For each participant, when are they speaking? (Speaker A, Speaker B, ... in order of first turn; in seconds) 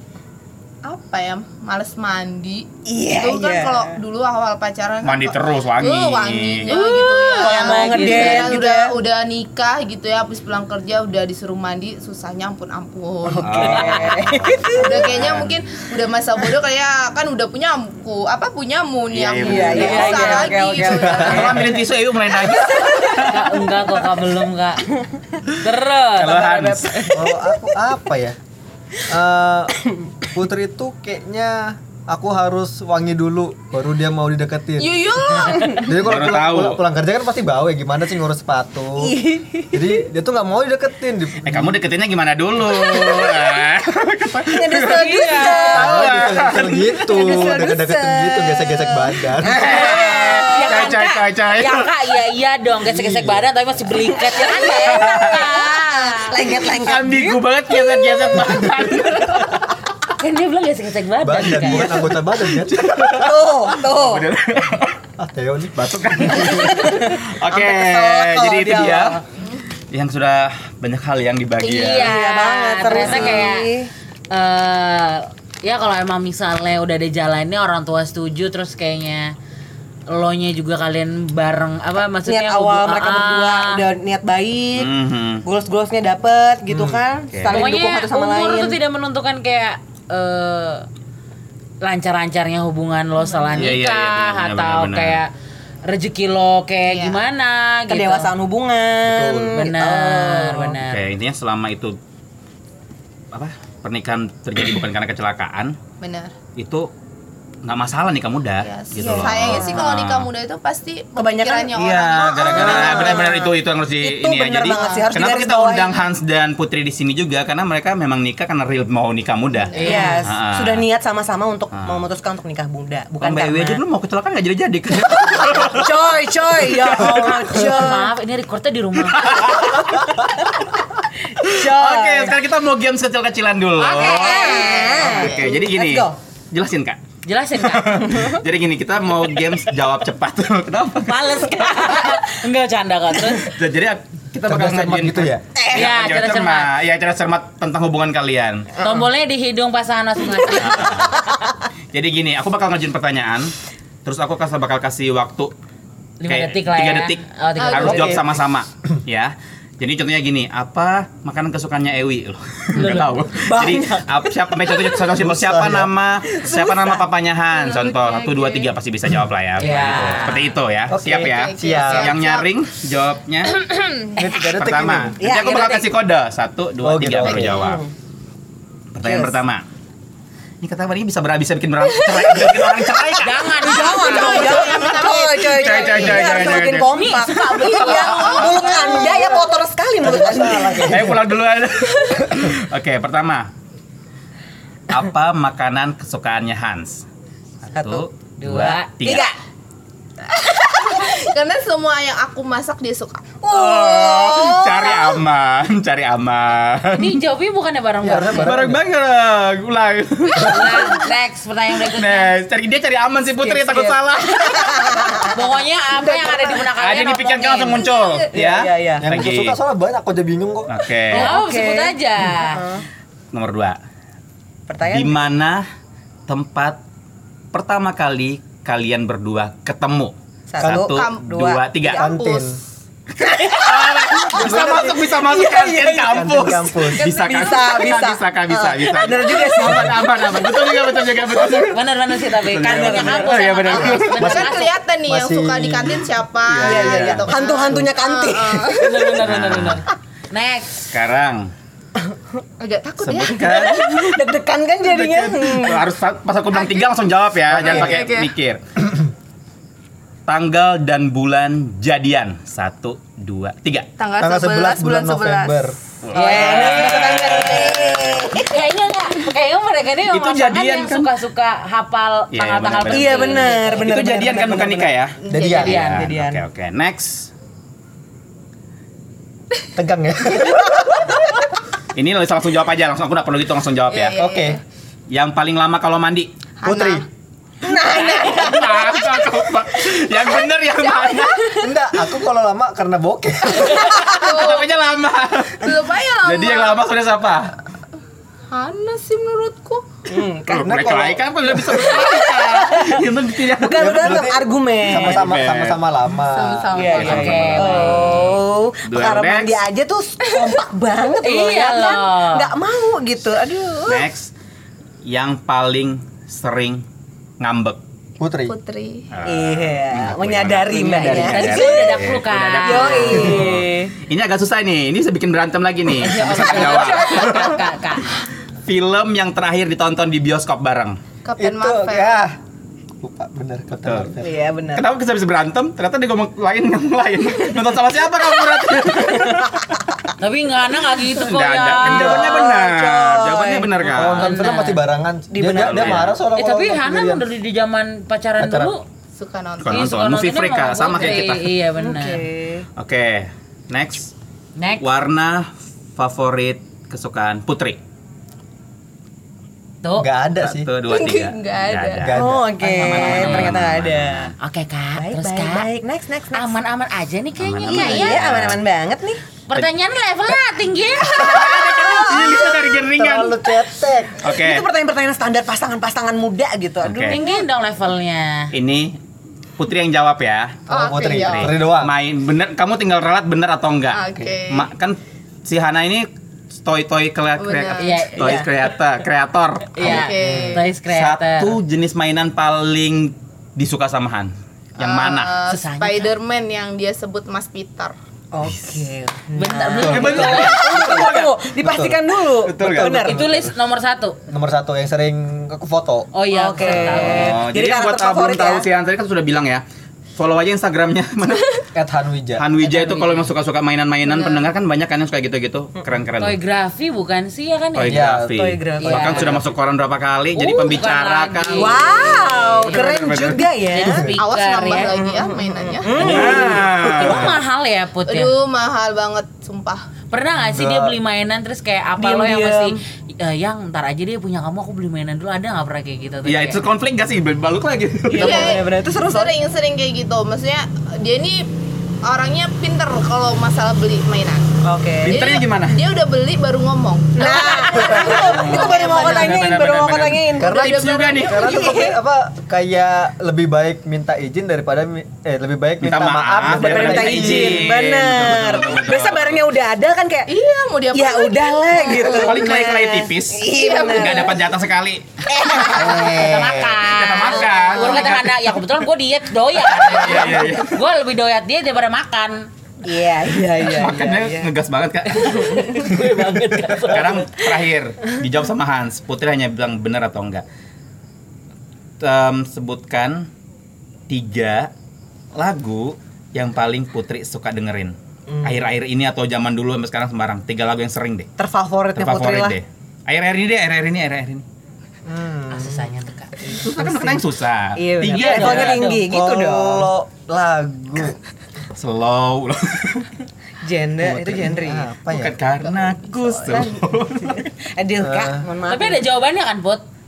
Speaker A: 0.9-14.2, 14.7-21.8, 34.8-36.0, 96.9-97.2, 106.0-106.3, 108.6-113.3, 119.7-120.1, 134.0-135.6, 157.6-158.3, 167.5-168.7, 169.8-170.2, 171.1-172.5, 183.9-186.7, 187.7-189.4, 200.6-203.4, 230.9-231.2, 231.9-232.6, 244.0-249.1, 252.6-254.1, 256.5-256.9, 257.6-258.3, 264.0-265.6, 275.2-275.8, 283.9-284.6, 286.6-287.1, 290.8-291.3, 293.7-294.7, 295.6-296.9, 298.5-299.9, 306.2-308.1, 318.4-319.1, 331.2-332.2, 349.2-349.9, 360.9-362.1, 380.7-381.5, 383.9-384.7, 387.4-388.4, 389.8-390.7, 394.8-398.0, 424.2-426.6, 428.1-429.8, 438.1-441.5, 442.1-444.5, 445.1-449.6, 450.4-451.9, 460.3-462.5, 463.5-464.4, 505.6-506.8
Speaker B: 2.9-4.0, 7.4-9.0, 13.3-15.1, 19.4-21.8, 22.5-23.3, 35.5-35.8, 39.0-39.9, 42.8-43.4, 44.5-46.3, 47.0-50.9, 54.0-58.4, 63.1-64.3, 66.5-69.2, 72.0-73.9, 82.2-84.9, 85.4-88.8, 97.9-100.8, 109.0-109.8, 111.2-111.7, 112.3-116.1, 119.8-123.8, 125.5-128.1, 129.7-130.3, 131.4-132.4, 133.8-136.2, 145.6-145.9, 163.3-165.0, 166.2-167.0, 175.2-175.9, 177.3-177.9, 179.0-179.4, 183.6-190.9, 197.8-198.1, 199.0-199.3, 203.4-205.2, 213.4-215.3, 218.3-219.1, 221.1-222.8, 224.7-225.2, 230.5-232.1, 233.2-236.3, 236.8-240.7, 242.6-244.1, 246.6-249.2, 253.4-255.9, 266.1-268.6, 272.9-274.9, 275.7-276.4, 287.6-289.3, 300.1-300.7, 302.0-303.0, 303.6-305.3, 306.7-314.1, 319.2-322.0, 322.6-323.9, 326.1-327.6, 334.2-334.9, 339.0-339.6, 341.8-343.9, 345.3-346.1, 351.8-352.7, 362.1-364.3, 365.0-366.6, 367.7-369.2, 371.1-372.6, 374.3-377.2, 398.3-403.3, 406.3-408.7, 418.3-419.3, 421.6-424.1, 424.9-427.3, 432.0-432.8, 438.1-439.3, 444.6-445.2, 447.2-450.5, 451.4-451.9, 456.5-460.3, 460.9-464.3, 465.3-466.4, 467.6-468.1, 472.9-474.5, 475.1-476.1, 488.3-488.6, 491.4-492.6, 497.8-499.9, 503.6-504.9, 506.5-509.0
Speaker C: 5.0-6.8, 13.4-15.6, 19.1-20.4, 21.2-23.7, 26.1-27.1, 36.0-36.8, 41.4-47.2, 49.5-51.9, 54.8-55.5, 56.7-59.6, 62.5-65.0, 65.8-69.2, 69.9-72.1, 73.0-73.5, 84.8-85.4, 87.3-87.7, 93.5-95.2, 100.8-102.0, 103.3-105.8, 106.6-106.9, 107.6-110.3, 111.8-120.8, 121.7-122.0, 123.2-125.9, 126.6-127.7, 129.1-130.2, 131.4-137.0, 137.6-141.7, 143.4-148.8, 150.6-151.2, 151.9-153.5, 154.1-155.5, 156.3-173.6, 174.4-177.8, 178.9-179.7, 180.6-183.7, 184.3-188.4, 190.8-193.5, 194.9-197.1, 197.7-199.3, 203.4-207.2, 208.4-211.0, 211.8-215.3, 216.8-219.6, 220.7-221.3, 223.3-223.8, 224.9-225.7, 226.3-226.8, 227.5-232.0, 233.2-241.8, 242.4-244.4, 246.5-247.2, 249.2-249.8, 250.9-251.5, 253.0-254.0, 255.5-258.6, 260.3-263.9, 266.0-268.3, 270.1-271.1, 272.3-277.3, 281.9-284.2, 285.1-286.3, 287.7-291.7, 293.6-297.5, 300.5-304.3, 304.9-305.8, 306.8-308.0, 308.9-309.6, 313.9-314.3, 315.1-316.9, 317.4-317.8, 319.1-327.6, 328.6-331.0, 333.8-334.1, 334.8-339.8, 341.1-344.4, 345.4-346.1, 349.6-351.5, 352.8-354.1, 354.8-357.8, 360.4-364.3, 367.4-368.6, 371.0-373.5, 374.2-374.7, 376.8-377.2, 378.5-379.0, 379.6-390.4, 390.9-395.3, 399.9-401.3, 402.4-402.9, 406.9-409.6, 410.2-411.6, 412.4-416.4, 417.8-423.5, 425.9-427.4, 436.2-438.6, 445.0-445.8, 448.2-451.8, 455.8-459.4, 461.8-465.1, 466.8-468.6, 469.6-470.8, 473.6-476.0, 476.8-480.4, 482.0-483.3, 484.1-484.7, 485.4-491.3, 492.0-494.4, 496.4-498.9, 501.8-503.1, 504.1-504.5, 505.1-507.5
Speaker D: 6.7-8.6, 19.8-20.6, 23.2-24.9, 25.6-27.1, 44.8-45.9, 49.6-56.6, 60.2-62.0, 71.6-73.7, 74.3-79.3, 80.1-83.8, 87.5-90.9, 91.8-95.3, 95.9-98.3, 99.5-101.0, 119.7-120.3, 127.4-129.5, 133.9-134.9, 137.2-138.2, 141.0-143.6, 145.7-146.7, 148.8-151.4, 156.2-158.2, 162.8-163.2, 169.6-170.5, 183.2-184.6, 186.9-188.8, 198.4-199.2, 207.0-208.6, 210.4-212.3, 215.3-217.9, 221.1-222.7, 241.6-244.7, 248.8-250.9, 266.1-267.4, 268.3-273.9, 275.6-276.1, 306.9-308.4, 311.2-312.5, 321.0-323.5, 326.0-328.1, 340.2-342.4, 344.1-344.8, 346.4-348.8, 349.7-352.3, 354.6-354.8, 359.8-360.1, 362.6-363.6, 364.4-365.7, 366.3-368.2, 369.5-371.6, 377.1-378.5, 387.8-388.5, 389.7-391.6, 395.5-396.1, 399.4-400.6, 402.9-404.2, 406.1-407.4, 412.6-413.3, 416.2-418.0, 418.8-419.4, 420.4-422.8, 423.7-425.0, 426.9-428.3, 430.1-436.6, 465.7-472.5, 475.4-477.3, 495.5-496.4, 498.1-499.1, 508.7-509.8
Speaker E: 27.1-28.4, 29.1-35.0, 35.7-39.2, 39.7-41.8, 45.7-49.7, 52.9-53.5, 61.2-62.9, 65.2-66.6, 86.7-87.0, 99.1-99.5, 144.5-145.4, 165.2-165.9, 170.9-172.1, 174.2-175.2, 176.8-177.6, 189.0-189.2, 190.0-191.2, 208.0-208.8, 219.0-220.7, 230.6-230.9, 231.9-232.6, 234.3-234.9, 236.1-237.1, 244.2-247.9, 254.8-255.6, 257.5-258.0, 264.2-265.8, 275.3-275.8, 279.8-281.1, 284.2-284.6, 286.6-287.1, 291.6-294.2, 300.6-301.8, 303.8-307.2, 318.2-318.6, 331.4-332.4, 333.0-334.4, 343.9-347.2, 348.4-348.7, 360.0-360.7, 362.0-362.4, 372.1-374.2, 380.7-381.9, 390.2-390.6, 399.8-401.1, 401.6-402.0, 402.6-403.5, 404.3-406.1, 411.7-412.5, 417.9-418.5, 419.1-419.5, 423.9-424.1, 430.4-431.0, 447.8-448.1, 450.4-457.8, 465.8-466.7, 495.1-497.2, 499.1-501.2, 504.4-505.4, 508.0-508.4